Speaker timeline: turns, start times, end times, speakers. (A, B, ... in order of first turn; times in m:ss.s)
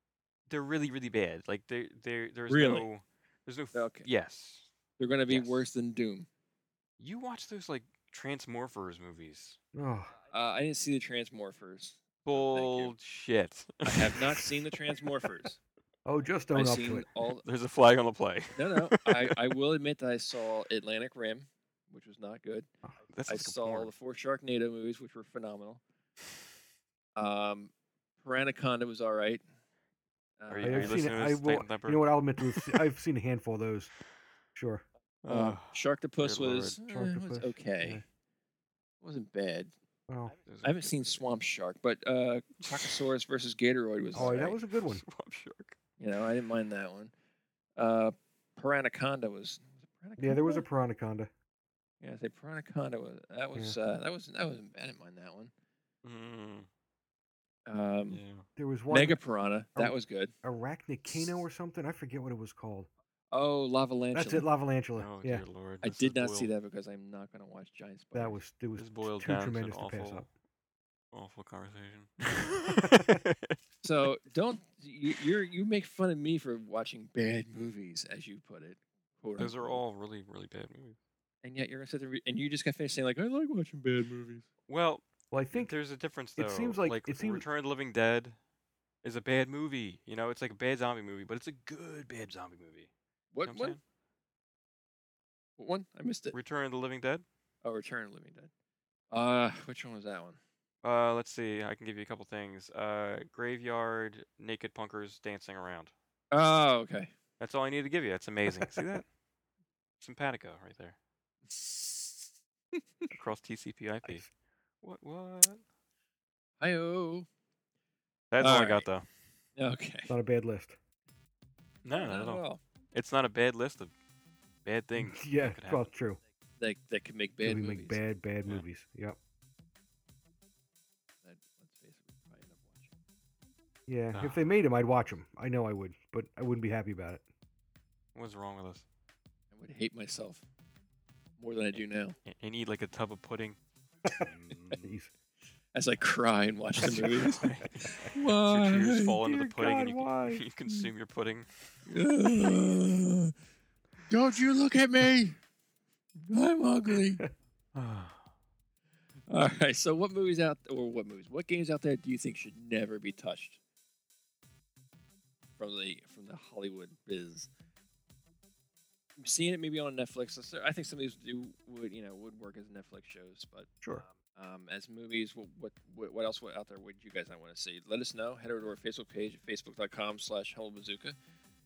0:00.5-0:04.7 A
0:02.5-0:02.9 B
0:03.7-0:04.1 B
0:05.0-0:06.3 B
0:05.3-0:05.6 A
0:07.0-0:09.6 A
0:09.7-0:10.1 C
0:10.3-0:12.9 B
0:12.3-0:15.3 A
0:13.8-0:15.6 B
0:16.0-0:17.1 C
0:16.5-0:17.4 B
0:17.4-0:19.5 A
0:18.5-0:22.7 B
0:23.1-0:23.9 A
0:23.3-0:25.8 B
0:27.2-0:29.4 B
0:30.4-0:31.1 B
0:30.5-0:32.8 A
0:30.6-0:33.9 C
0:34.6-0:34.8 C
0:35.2-0:36.8 A
0:35.3-0:38.0 B
0:36.8-0:38.0 C
0:39.0-0:39.7 B
0:40.1-0:40.4 C
0:40.4-0:41.2 A
0:40.6-0:44.6 B
0:42.7-0:43.0 A
0:44.1-0:45.0 C
0:44.8-0:45.8 A
0:46.0-0:47.1 B
0:47.8-0:50.6 B
0:50.2-0:51.3 C
0:52.0-0:55.5 B
0:56.0-0:56.7 A
0:57.7-0:58.2 B
0:58.1-0:58.4 A
0:58.6-0:59.2 C
0:58.9-1:00.3 B
0:59.8-1:02.9 C
1:03.3-1:04.5 B
1:04.1-1:05.4 C
1:05.0-1:06.5 A
1:05.8-1:08.4 B
1:08.2-1:10.3 C
1:08.8-1:10.3 A
1:11.1-1:13.6 A
1:12.7-1:13.2 C
1:13.8-1:19.8 B
1:19.4-1:21.0 A
1:21.4-1:24.5 B
1:24.7-1:28.4 A
1:25.3-1:25.7 C
1:26.4-1:27.4 C
1:29.0-1:32.9 A
1:33.3-1:33.8 B
1:33.5-1:33.8 A
1:35.6-1:36.4 B
1:36.3-1:37.2 A
1:37.6-1:38.5 B
1:39.1-1:40.4 B
1:40.8-1:45.9 A
1:46.3-1:47.1 B
1:47.4-1:49.0 A
1:48.5-1:48.9 C
1:50.0-1:51.0 A
1:51.5-1:53.1 B
1:53.1-1:54.3 A
1:54.8-1:55.6 A
1:56.6-1:57.3 B
1:58.3-1:59.1 A
1:58.4-1:58.9 B
1:59.6-2:00.1 B
2:00.1-2:00.8 C
2:01.8-2:03.9 A
2:02.0-2:02.6 B
2:04.6-2:05.9 A
2:05.0-2:06.2 C
2:06.6-2:08.0 B
2:07.4-2:09.2 C
2:11.2-2:12.9 B
2:13.9-2:17.2 C
2:14.1-2:14.4 A
2:18.2-2:18.8 A
2:19.5-2:20.5 B
2:21.4-2:22.2 B
2:22.3-2:23.6 A
2:24.0-2:25.1 C
2:24.1-2:25.0 A
2:25.7-2:27.4 B
2:26.8-2:31.7 A
2:27.6-2:28.1 C
2:28.1-2:29.2 B
2:29.2-2:30.4 C
2:31.9-2:33.3 B
2:34.1-2:35.4 B
2:36.3-2:37.2 B
2:37.7-2:38.2 A
2:39.3-2:43.6 B
2:45.6-2:47.5 B
2:49.2-3:01.2 B